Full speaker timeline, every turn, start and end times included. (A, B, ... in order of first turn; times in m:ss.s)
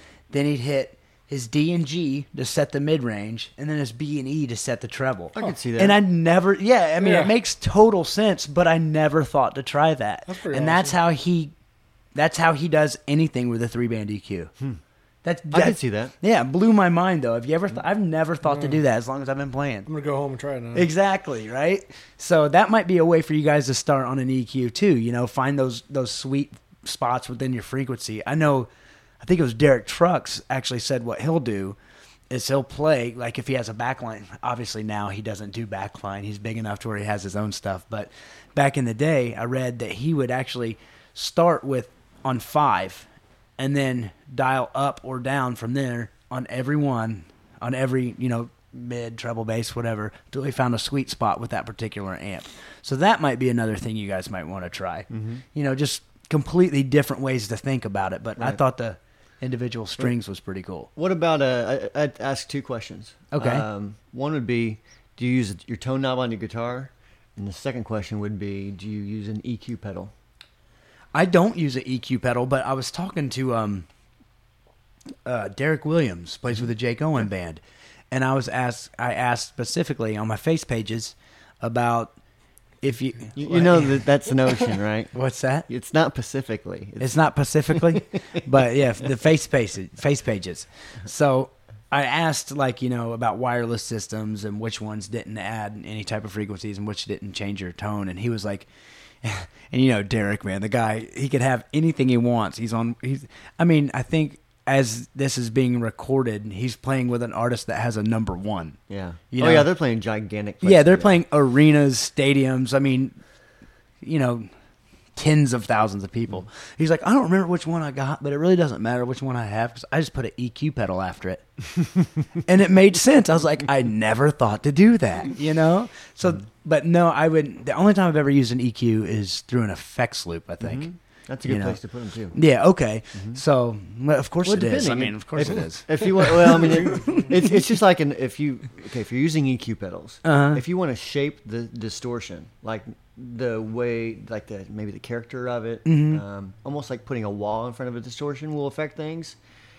0:00.3-0:11.5 A
0:05.3-0:06.0 B
0:07.0-0:07.3 C
0:10.3-0:11.0 C
0:12.1-0:14.5 A
0:15.2-0:19.9 A
0:15.5-0:16.1 B
0:18.5-0:18.8 C
0:19.9-0:20.9 C
0:20.7-0:28.7 A
0:29.2-0:31.8 A
0:32.3-0:43.0 A
0:43.6-1:00.9 A
0:55.1-0:55.4 B
1:01.0-1:10.1 B
1:03.3-1:03.6 A
1:11.1-1:13.8 A
1:15.2-1:22.1 A
1:22.8-1:24.0 A
1:23.4-1:25.1 B
1:25.1-1:25.7 A
1:25.7-1:27.1 B
1:27.0-1:38.7 A
1:27.7-1:28.0 B
1:39.2-1:48.8 A
1:48.9-1:51.2 B
1:49.3-1:49.7 A
1:50.6-1:53.2 A
1:54.0-1:54.5 A
1:55.2-2:01.6 A
2:02.4-2:10.9 A
2:10.6-2:12.4 B
2:11.4-2:11.8 A
2:12.3-2:17.5 A
2:14.4-2:29.4 B
2:16.9-2:17.2 C
2:20.2-2:20.6 A
2:25.8-2:26.2 A